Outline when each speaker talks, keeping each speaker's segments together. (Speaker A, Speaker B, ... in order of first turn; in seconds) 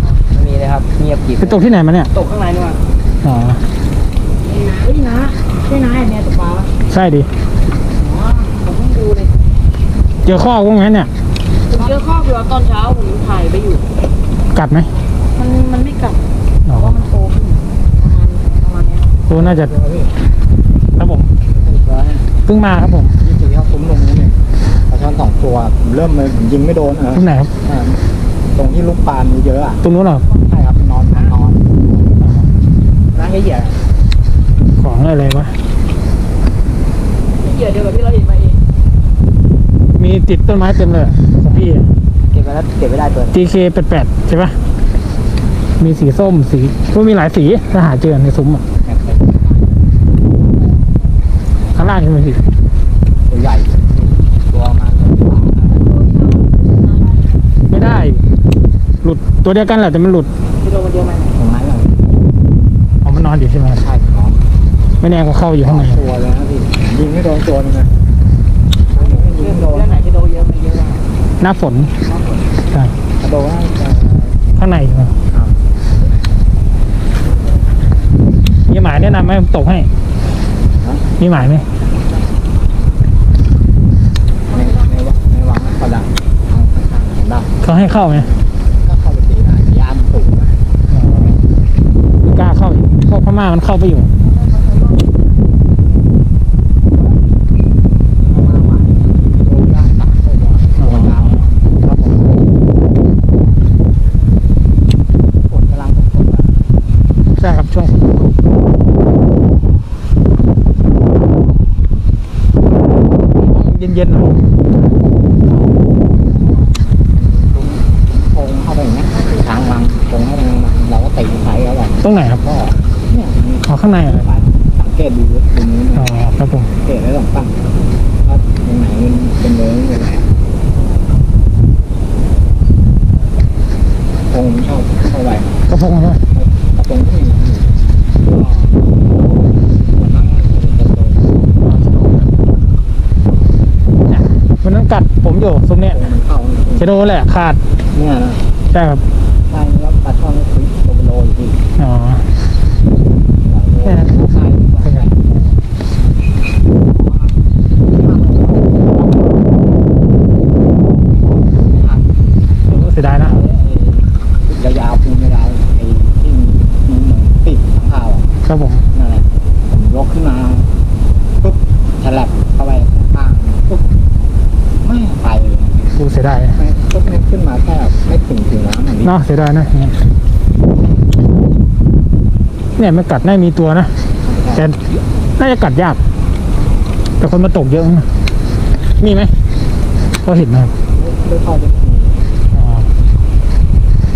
Speaker A: 0.3-1.6, 42.3-43.4
Speaker B: 1.4-2.1, 3.2-3.6, 6.9-7.3, 10.2-11.1, 14.5-14.9, 16.7-17.1, 19.3-19.7, 21.0-21.3, 22.5-23.2, 27.2-27.5, 29.8-30.2, 32.2-32.5, 34.8-35.6, 40.0-41.9, 43.3-44.6, 45.8-48.6, 51.7-52.4, 57.7-58.2, 59.0-60.3, 63.0-63.8, 65.0-66.0, 71.4-71.9, 74.6-75.2, 78.7-79.9, 81.2-81.7, 87.6-88.3, 90.9-91.4, 92.2-94.1, 100.8-101.1, 107.4-108.0, 113.4-114.5, 122.0-122.4, 123.7-124.3, 126.0-126.7, 135.7-136.2, 144.1-146.0, 146.8-147.6, 148.7-149.0, 151.8-152.3, 153.9-154.1, 162.7-163.4, 168.5-168.8, 176.0-176.6, 179.0-180.0, 182.8-183.9, 184.6-184.8, 185.4-186.0, 187.2-188.1, 189.0-189.3, 190.2-190.7, 192.5-192.9
Speaker C: 2.1-2.8, 4.5-6.7, 8.0-9.3, 11.7-13.9, 15.4-19.1, 37.4-38.6, 56.1-57.2, 60.6-61.3, 69.0-71.0
Speaker D: 19.3-20.2, 21.5-22.3, 23.2-32.2, 33.1-33.9, 48.8-49.7, 53.3-56.0, 61.3-62.1, 63.8-64.5, 65.6-67.9, 68.9-70.1, 73.2-74.4, 75.3-76.4, 80.8-81.1, 84.5-90.6, 96.9-97.2, 98.2-102.5, 105.5-106.6, 115.3-127.6, 128.2-130.3, 134.3-135.7, 136.3-141.5, 145.9-146.9, 147.9-148.5, 149.5-151.6, 153.4-155.7, 156.8-159.5, 160.9-168.3, 168.9-170.7, 171.4-173.8, 174.8-175.9, 176.5-179.2, 184.2-184.7, 190.9-192.2